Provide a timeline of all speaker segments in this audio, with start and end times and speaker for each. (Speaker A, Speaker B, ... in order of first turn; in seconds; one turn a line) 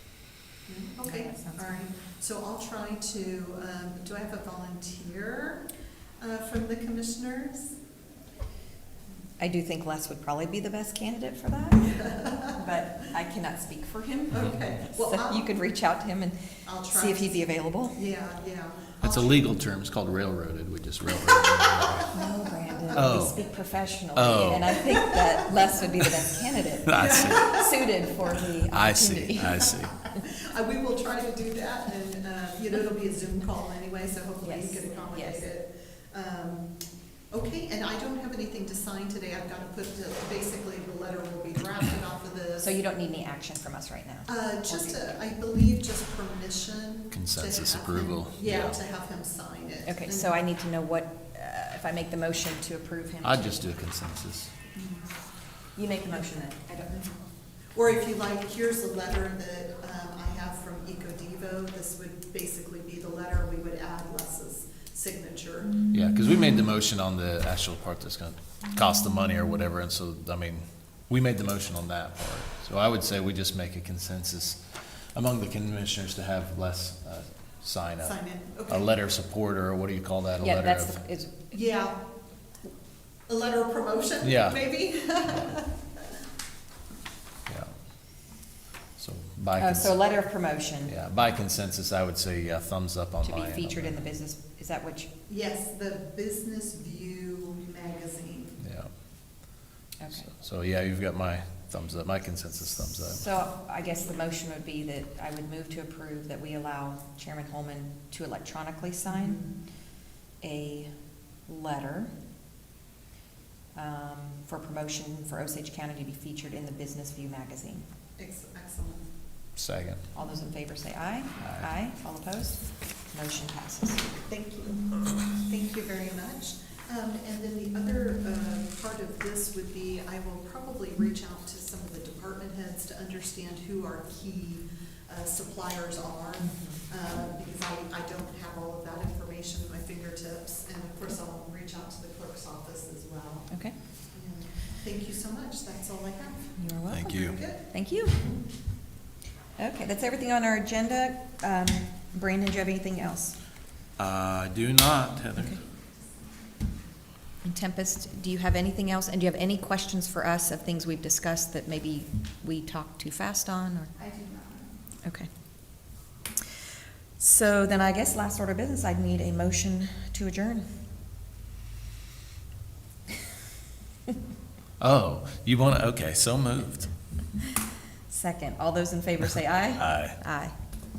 Speaker A: 0.7-7.8
Speaker B: 1.0-1.7
Speaker B: 9.4-18.0
Speaker A: 11.9-12.5
Speaker A: 14.3-15.5
Speaker A: 16.6-19.5
Speaker C: 19.0-22.1
Speaker B: 22.1-29.7
Speaker C: 22.9-23.4
Speaker C: 24.1-24.8
Speaker C: 26.9-27.6
Speaker A: 27.0-27.6
Speaker C: 28.7-29.9
Speaker A: 30.1-36.7
Speaker B: 34.4-35.5
Speaker A: 37.3-42.7
Speaker B: 42.6-45.2
Speaker A: 44.3-50.4
Speaker C: 47.1-48.8
Speaker B: 49.9-53.7
Speaker C: 53.2-54.5
Speaker A: 54.7-55.0
Speaker B: 55.7-57.2
Speaker A: 57.7-65.8
Speaker C: 65.9-81.0
Speaker A: 78.0-78.9
Speaker B: 80.4-81.6
Speaker A: 81.5-82.1
Speaker A: 83.3-86.0
Speaker C: 84.2-84.6
Speaker C: 85.3-85.6
Speaker C: 87.5-87.7
Speaker C: 89.0-90.0
Speaker B: 89.6-90.9
Speaker C: 90.8-94.0
Speaker B: 93.2-95.1
Speaker A: 95.3-98.6
Speaker C: 98.6-98.9
Speaker B: 100.0-100.3
Speaker C: 100.3-103.2
Speaker B: 103.0-109.4
Speaker A: 109.0-109.6
Speaker B: 110.4-110.9
Speaker B: 111.5-112.1
Speaker B: 113.7-117.8
Speaker A: 118.2-119.1
Speaker C: 119.5-120.0
Speaker B: 120.1-124.1
Speaker C: 121.4-121.7
Speaker A: 124.1-143.5
Speaker B: 136.4-136.8
Speaker B: 143.5-143.7
Speaker A: 144.1-146.6
Speaker B: 146.6-148.4
Speaker C: 146.9-147.4
Speaker A: 147.2-147.7
Speaker B: 149.6-153.4
Speaker C: 154.0-155.6
Speaker B: 157.4-163.9
Speaker A: 164.0-164.7
Speaker B: 165.0-165.3
Speaker B: 167.2-170.7
Speaker C: 174.8-176.9
Speaker B: 178.1-180.5
Speaker C: 179.8-180.2